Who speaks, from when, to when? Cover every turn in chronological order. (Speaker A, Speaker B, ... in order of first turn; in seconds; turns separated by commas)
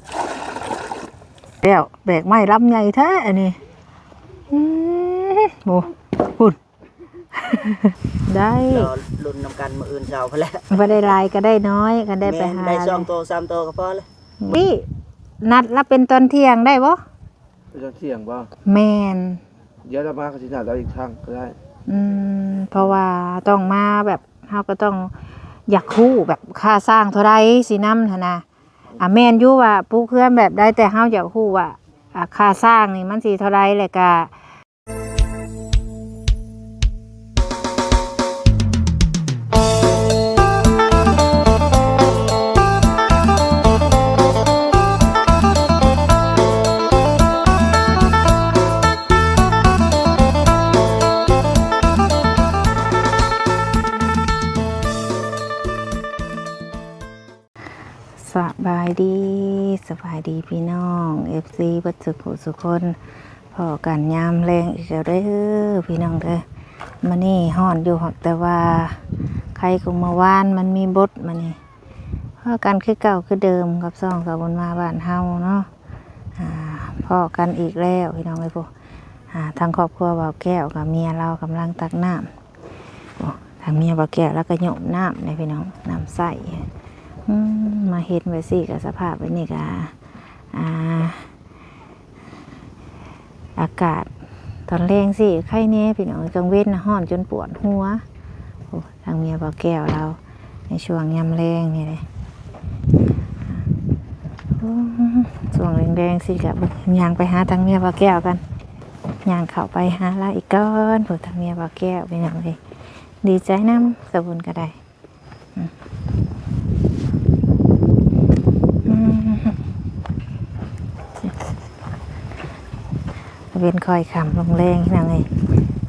Speaker A: 1.6-3.6, Speaker A: 4.5-6.6, Speaker A: 7.3-8.9, Speaker B: 8.7-11.1, Speaker A: 10.7-13.1, Speaker B: 12.2-14.1, Speaker A: 14.4-14.8, Speaker A: 15.4-17.0, Speaker C: 17.7-18.5, Speaker A: 18.6-19.4, Speaker C: 19.8-21.5, Speaker A: 21.9-25.1, Speaker A: 25.7-28.4, Speaker A: 29.0-34.3, Speaker A: 58.2-63.0, Speaker A: 63.5-66.4, Speaker A: 67.0-69.0, Speaker A: 69.5-71.6, Speaker A: 72.4-75.7, Speaker A: 76.4-78.7, Speaker A: 79.3-82.3, Speaker A: 83.2-86.7, Speaker A: 87.3-89.9, Speaker A: 90.5-91.3, Speaker A: 93.5-94.1, Speaker A: 94.7-98.0, Speaker A: 98.7-100.2, Speaker A: 100.7-102.0, Speaker A: 104.6-108.4, Speaker A: 109.2-112.6, Speaker A: 113.2-114.8, Speaker A: 118.8-119.6, Speaker A: 123.5-125.2